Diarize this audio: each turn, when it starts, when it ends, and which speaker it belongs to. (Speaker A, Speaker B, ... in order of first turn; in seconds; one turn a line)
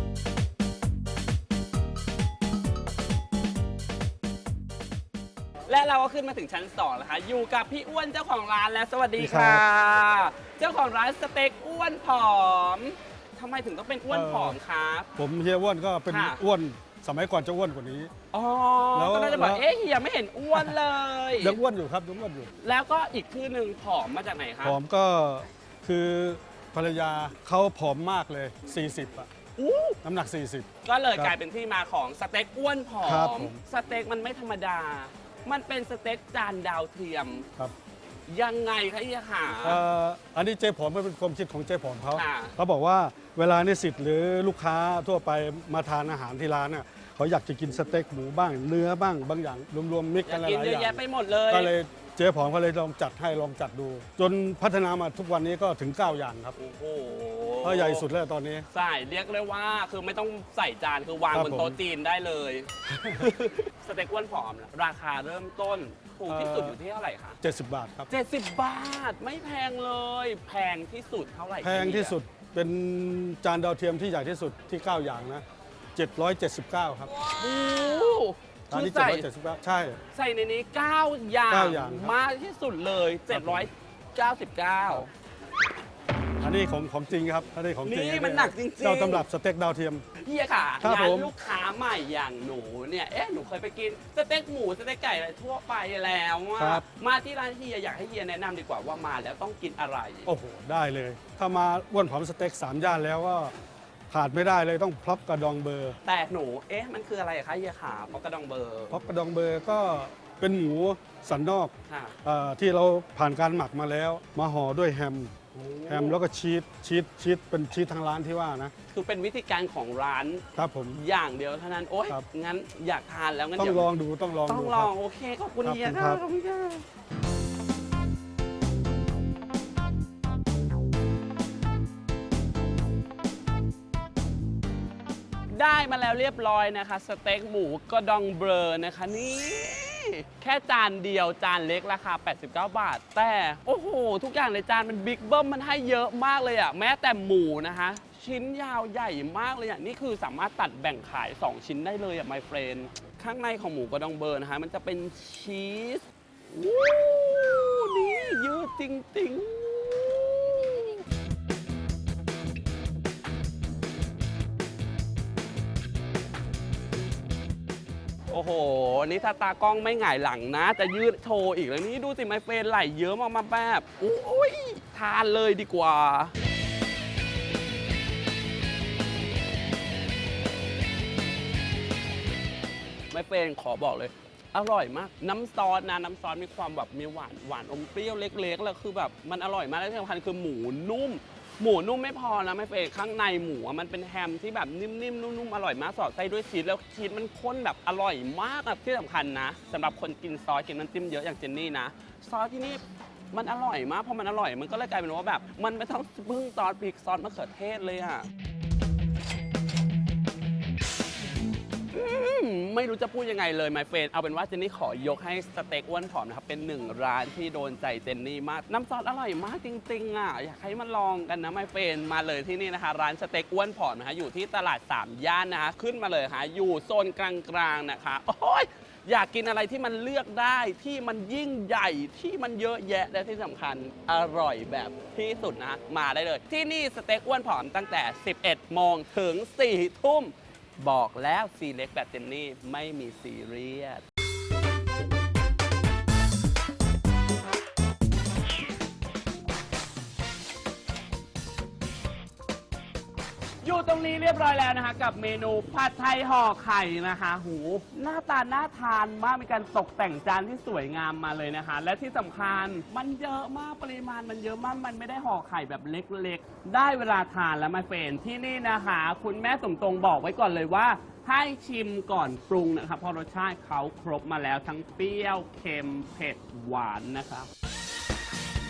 Speaker A: 5.7-15.1
Speaker B: 9.2-9.6
Speaker B: 14.1-14.6
Speaker B: 15.2-18.1
Speaker A: 16.1-16.4
Speaker A: 18.3-21.6
Speaker B: 18.9-19.6
Speaker B: 21.4-22.5
Speaker A: 22.6-24.8
Speaker B: 24.6-29.3
Speaker A: 29.6-30.0
Speaker B: 30.0-31.3
Speaker A: 30.8-37.5
Speaker B: 33.0-33.6
Speaker A: 38.3-39.8
Speaker B: 39.6-56.5
Speaker A: 42.1-42.5
Speaker A: 50.2-51.7
Speaker A: 56.5-58.1
Speaker B: 57.6-58.7
Speaker A: 58.7-67.4
Speaker B: 61.3-61.8
Speaker B: 62.9-63.3
Speaker B: 66.3-66.8
Speaker B: 67.4-68.1
Speaker A: 68.1-72.2
Speaker B: 71.6-75.4
Speaker B: 75.9-77.1
Speaker A: 77.3-79.3
Speaker B: 78.7-80.0
Speaker A: 80.1-85.1
Speaker B: 81.5-82.1
Speaker B: 83.3-83.7
Speaker B: 86.4-90.0
Speaker A: 87.8-89.2
Speaker A: 90.2-100.3
Speaker B: 90.8-91.3
Speaker B: 96.6-96.8
Speaker B: 100.2-103.5
Speaker B: 104.1-106.0
Speaker A: 106.0-109.0
Speaker B: 108.9-111.7
Speaker A: 111.9-112.2
Speaker B: 112.2-115.3
Speaker A: 115.5-116.2
Speaker B: 115.9-118.7
Speaker A: 118.9-123.9
Speaker B: 120.5-121.0
Speaker B: 123.6-124.9
Speaker A: 124.5-126.8
Speaker B: 125.6-126.2
Speaker A: 135.5-161.0
Speaker A: 168.3-176.3
Speaker A: 183.1-208.3
Speaker A: 211.9-244.0
Speaker A: 253.6-277.5